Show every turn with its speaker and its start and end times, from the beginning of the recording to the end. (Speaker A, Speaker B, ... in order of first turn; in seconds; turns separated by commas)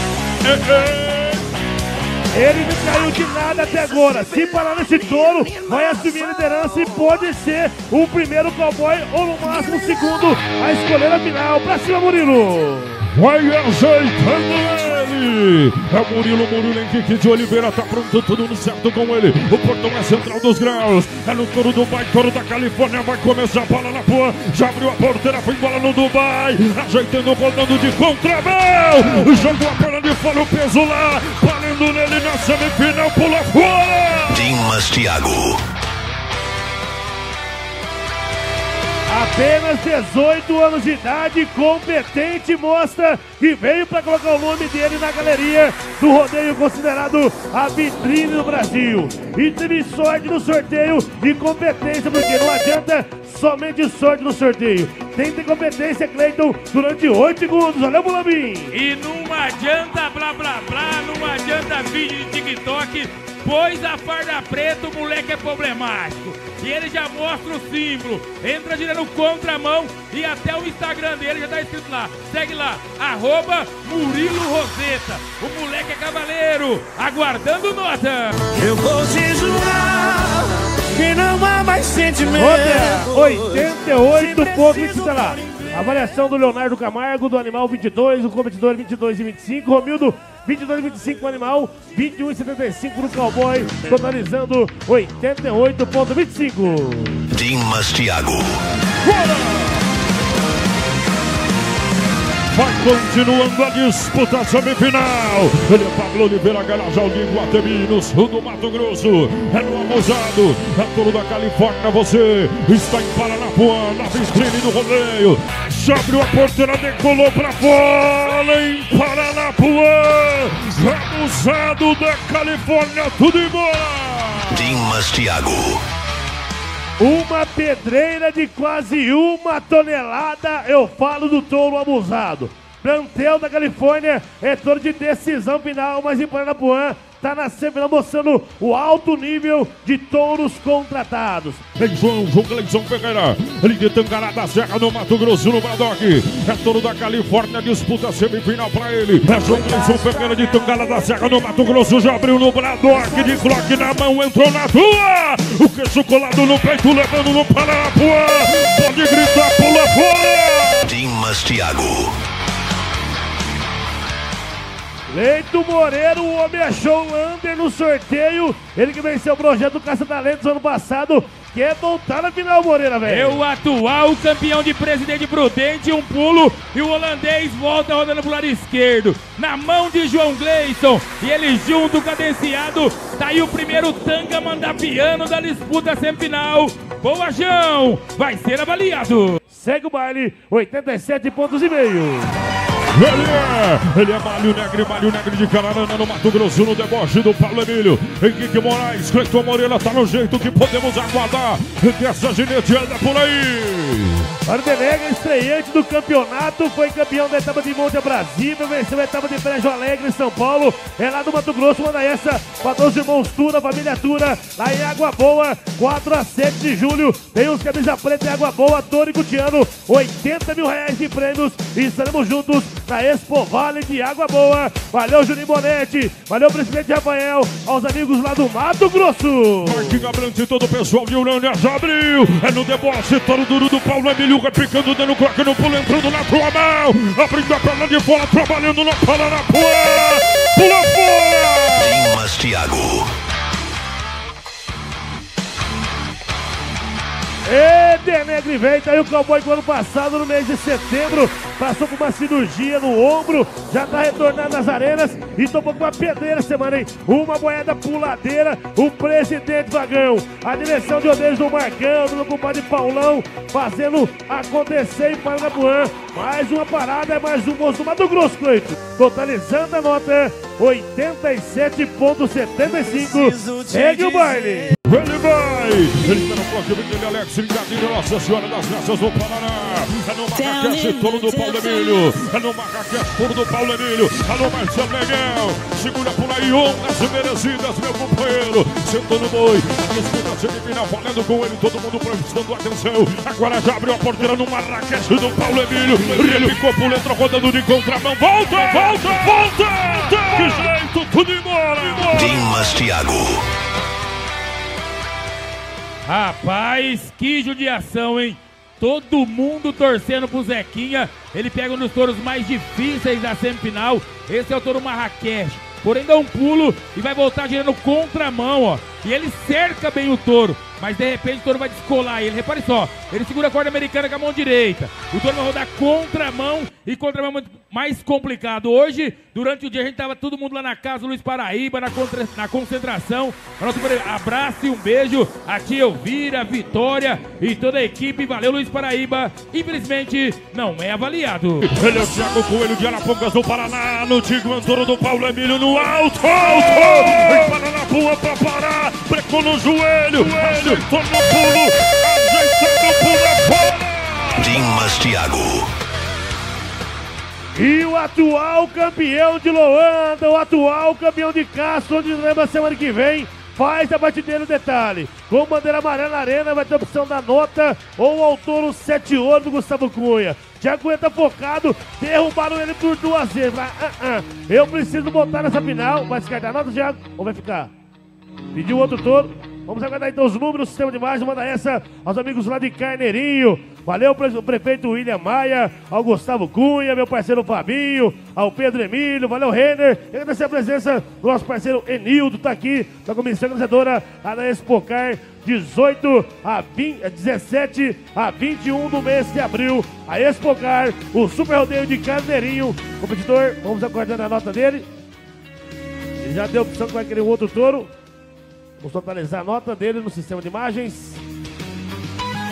Speaker A: 0.4-1.4, Speaker B: 2.3-13.1, Speaker A: 13.1-34.6, Speaker C: 34.3-35.6, Speaker B: 39.1-58.8, Speaker D: 58.7-78.5, Speaker E: 78.6-82.5, Speaker B: 82.3-97.3, Speaker C: 97.3-98.6, Speaker A: 99.0-99.8, Speaker A: 102.5-124.8, Speaker C: 124.5-125.8, Speaker B: 127.0-141.6, Speaker A: 141.8-161.0, Speaker C: 160.9-162.2, Speaker B: 165.1-173.4, Speaker D: 173.0-189.4, Speaker B: 189.5-192.3, Speaker A: 192.9-204.3, Speaker B: 204.4-230.0, Speaker A: 229.6-242.1, Speaker C: 241.8-243.1, Speaker B: 247.4-274.8, Speaker A: 274.8-302.7, Speaker C: 302.1-303.4, Speaker D: 306.0-341.7, Speaker A: 341.7-354.9, Speaker C: 354.4-355.7, Speaker B: 357.6-377.7, Speaker B: 378.5-404.9, Speaker B: 406.2-407.9, Speaker B: 408.8-411.2